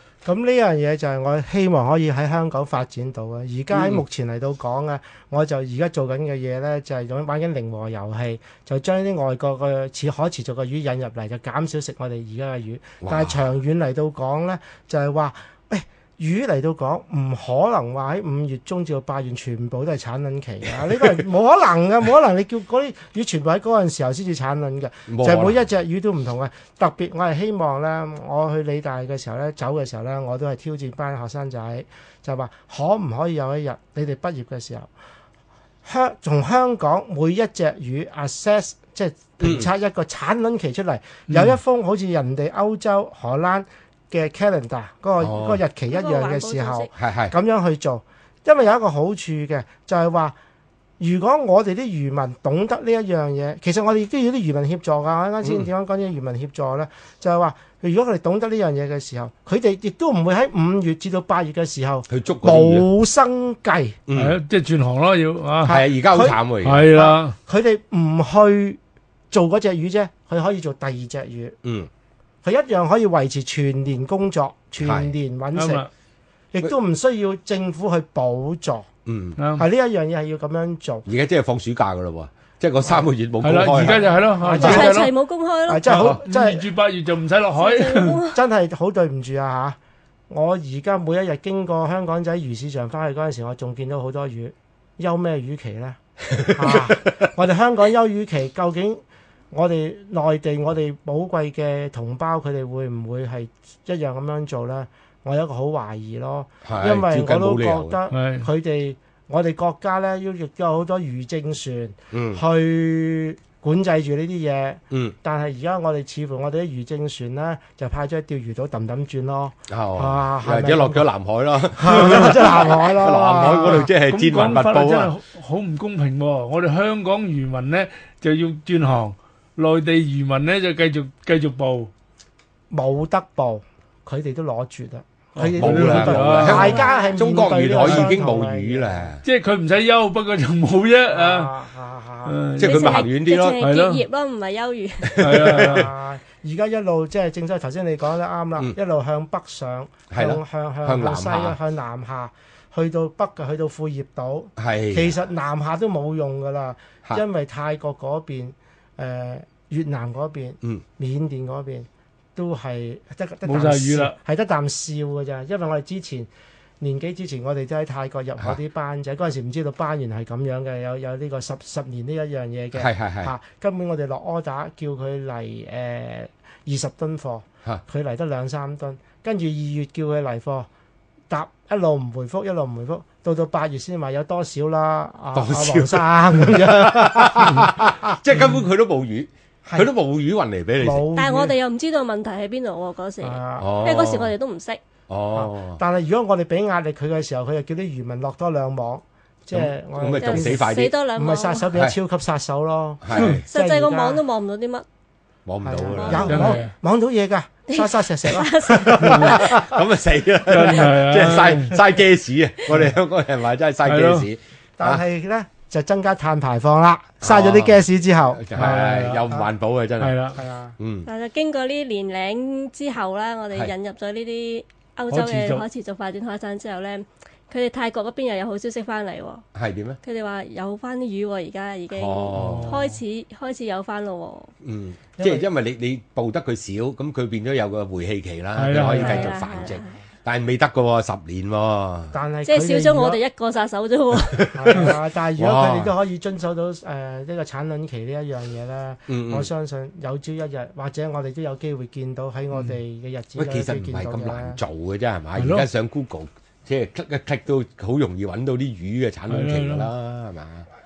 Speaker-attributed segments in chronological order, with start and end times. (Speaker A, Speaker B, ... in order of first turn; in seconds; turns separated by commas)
Speaker A: 0.2-34.9, Speaker B: 3.7-4.0, Speaker B: 13.0-13.4, Speaker B: 25.1-25.6, Speaker A: 35.9-50.4, Speaker B: 39.4-39.7, Speaker C: 41.3-41.5, Speaker B: 45.2-45.6, Speaker D: 45.9-46.9, Speaker B: 47.0-47.3, Speaker A: 51.0-64.0, Speaker B: 55.4-55.7, Speaker B: 62.1-62.9, Speaker B: 64.1-64.4, Speaker C: 64.2-65.8, Speaker B: 65.6-66.9, Speaker A: 65.6-66.4, Speaker C: 66.6-67.4, Speaker A: 66.9-68.8, Speaker A: 69.3-71.6, Speaker B: 71.6-71.9, Speaker A: 72.4-75.9, Speaker B: 74.8-75.1, Speaker C: 75.5-75.9, Speaker A: 76.5-78.9, Speaker B: 79.1-79.4, Speaker C: 79.4-79.7, Speaker A: 79.6-81.1, Speaker B: 81.1-84.1, Speaker A: 82.8-83.1, Speaker C: 83.4-85.1, Speaker A: 83.8-85.1, Speaker D: 84.5-85.9, Speaker A: 85.7-86.7, Speaker C: 85.9-88.2, Speaker D: 87.6-88.4, Speaker A: 88.3-89.8, Speaker A: 90.3-121.1, Speaker B: 96.3-97.0, Speaker B: 106.6-108.0, Speaker C: 108.1-108.5, Speaker B: 112.1-112.4, Speaker B: 114.9-115.2, Speaker B: 119.7-125.1, Speaker A: 121.7-123.9, Speaker C: 124.1-131.9, Speaker A: 132.7-139.1, Speaker C: 135.4-136.8, Speaker B: 135.5-139.2, Speaker D: 136.5-137.1, Speaker C: 137.8-138.1, Speaker C: 139.2-141.5, Speaker A: 141.1-142.4, Speaker C: 142.3-143.1, Speaker B: 142.6-143.6, Speaker D: 142.6-145.4, Speaker C: 143.6-144.0, Speaker B: 145.0-145.9, Speaker C: 145.2-145.9, Speaker A: 145.5-166.3, Speaker B: 150.1-151.6, Speaker B: 154.6-155.2, Speaker C: 163.4-164.2, Speaker A: 166.8-180.7, Speaker B: 172.8-173.3, Speaker A: 181.3-188.2, Speaker B: 185.3-191.1, Speaker A: 189.6-189.9, Speaker A: 190.8-191.5, Speaker D: 191.2-194.8, Speaker A: 193.2-193.9, Speaker B: 193.6-194.3, Speaker B: 195.1-195.8, Speaker A: 195.3-204.2, Speaker B: 199.5-200.9, Speaker D: 200.2-201.7, Speaker B: 203.0-203.4, Speaker C: 203.1-203.4, Speaker D: 203.5-204.8, Speaker B: 205.5-206.6, Speaker A: 205.6-209.8, Speaker D: 205.9-206.6, Speaker C: 206.3-206.7, Speaker D: 207.7-209.4, Speaker B: 209.0-215.0, Speaker C: 210.5-211.8, Speaker C: 213.9-214.3, Speaker A: 214.8-219.5, Speaker B: 217.2-221.1, Speaker C: 218.6-219.3, Speaker C: 220.0-220.4, Speaker A: 220.3-220.8, Speaker D: 221.1-229.4, Speaker C: 225.1-225.6, Speaker B: 229.6-230.0, Speaker D: 230.0-234.5, Speaker B: 231.9-232.8, Speaker C: 232.3-232.9, Speaker B: 234.6-242.2, Speaker A: 235.2-235.5, Speaker C: 238.6-239.4, Speaker D: 238.9-239.9, Speaker A: 242.1-243.2, Speaker D: 242.5-244.5, Speaker B: 244.1-245.9, Speaker A: 244.5-254.6, Speaker B: 249.1-249.5, Speaker B: 253.4-260.7, Speaker C: 255.4-255.7, Speaker C: 259.3-259.9